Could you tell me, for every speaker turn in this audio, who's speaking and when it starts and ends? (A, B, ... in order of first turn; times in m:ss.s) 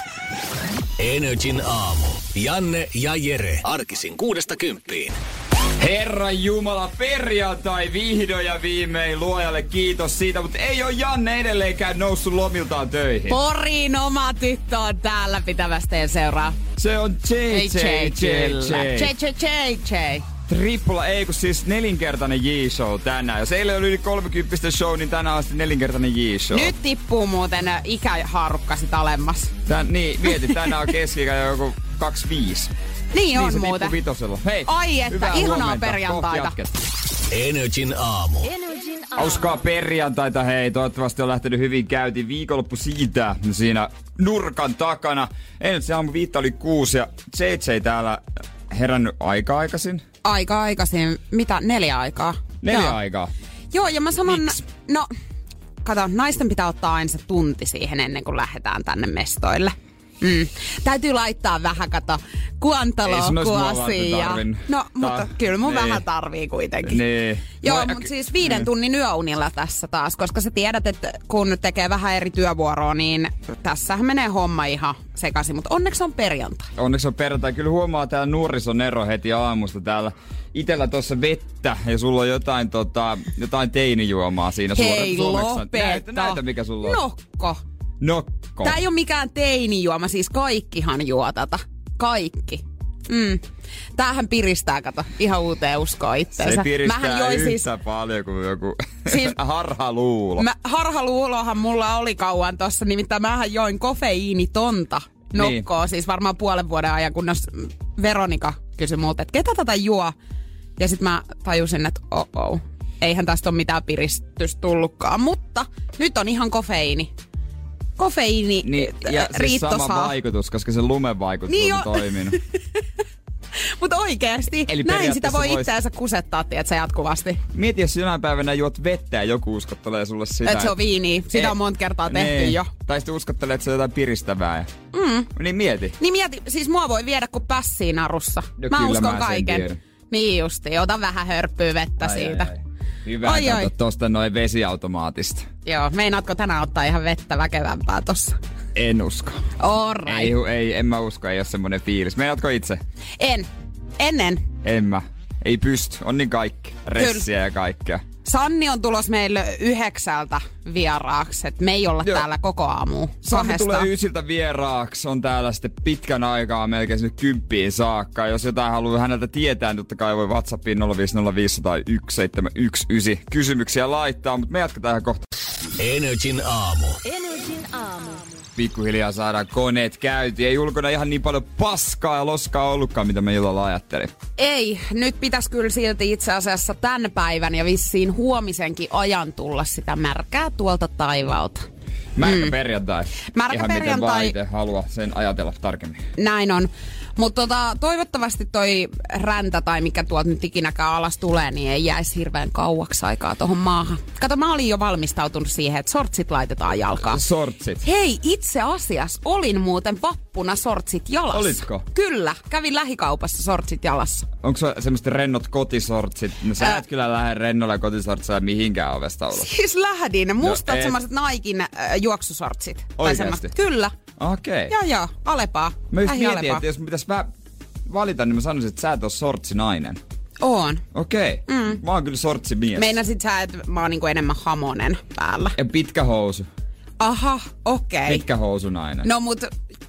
0:01.0-0:05.2 A
0:05.8-0:13.4 B
0:13.3-0:16.6 C
0:16.8-0:19.1 B
0:17.5-0:20.2 C
0:20.5-0:26.7 B
0:26.5-0:29.5 C
0:29.6-0:32.7 B
0:30.3-0:30.7 C
0:33.1-0:34.0 C
0:33.3-0:36.8 B
0:34.6-0:36.5 C
0:37.3-0:38.6 A
0:39.1-0:50.0 B
0:50.2-0:53.0 C
0:52.6-0:53.3 B
0:53.7-0:55.1 C
0:54.3-0:54.5 B
0:55.8-1:07.0 C
1:03.0-1:06.0 B
1:06.8-1:08.7 B
1:07.6-1:16.7 C
1:16.8-1:27.0 B
1:24.7-1:27.6 C
1:28.0-1:28.8 B
1:28.6-1:33.4 C
1:34.0-1:37.6 C
1:36.4-1:40.5 B
1:39.1-1:39.3 C
1:40.4-1:50.1 C
1:45.3-1:45.6 B
1:50.8-1:57.1 C
1:58.0-2:00.1 C
1:58.6-2:02.4 B
2:01.5-2:02.4 C
2:03.6-2:07.4 C
2:04.7-2:05.7 B
2:07.5-2:10.8 B
2:10.4-2:12.7 C
2:11.3-2:14.7 B
2:14.9-2:15.3 C
2:15.3-2:16.0 B
2:16.0-2:22.5 C
2:18.6-2:19.8 B
2:22.0-2:25.5 B
2:23.2-2:23.7 C
2:25.6-2:28.4 C
2:28.7-2:29.4 B
2:29.6-2:30.3 C
2:30.0-2:32.8 B
2:33.2-2:34.5 C
2:34.6-2:38.0 B
2:37.0-2:37.2 C
2:38.2-2:43.9 C
2:43.2-2:55.2 B
2:55.8-2:58.1 A
2:58.6-3:04.1 B
3:04.4-3:11.6 C
3:12.2-3:16.0 B
3:12.2-3:12.5 C
3:13.3-3:14.3 C
3:16.2-3:27.2 C
3:27.0-3:27.8 B
3:27.8-3:34.3 C
3:31.3-3:31.8 B
3:34.4-3:39.5 B
3:39.3-3:43.9 C
3:40.4-3:41.0 B
3:43.0-3:43.5 B
3:44.2-3:44.7 B
3:44.7-3:46.6 C
3:45.9-3:47.3 B
3:47.8-3:50.0 B
3:50.4-3:50.8 C
3:50.9-3:53.0 B
3:51.5-3:51.8 C
3:52.7-3:55.6 C
3:55.5-3:56.5 B
3:57.0-3:58.2 C
3:58.1-3:59.1 B
3:59.0-3:59.5 C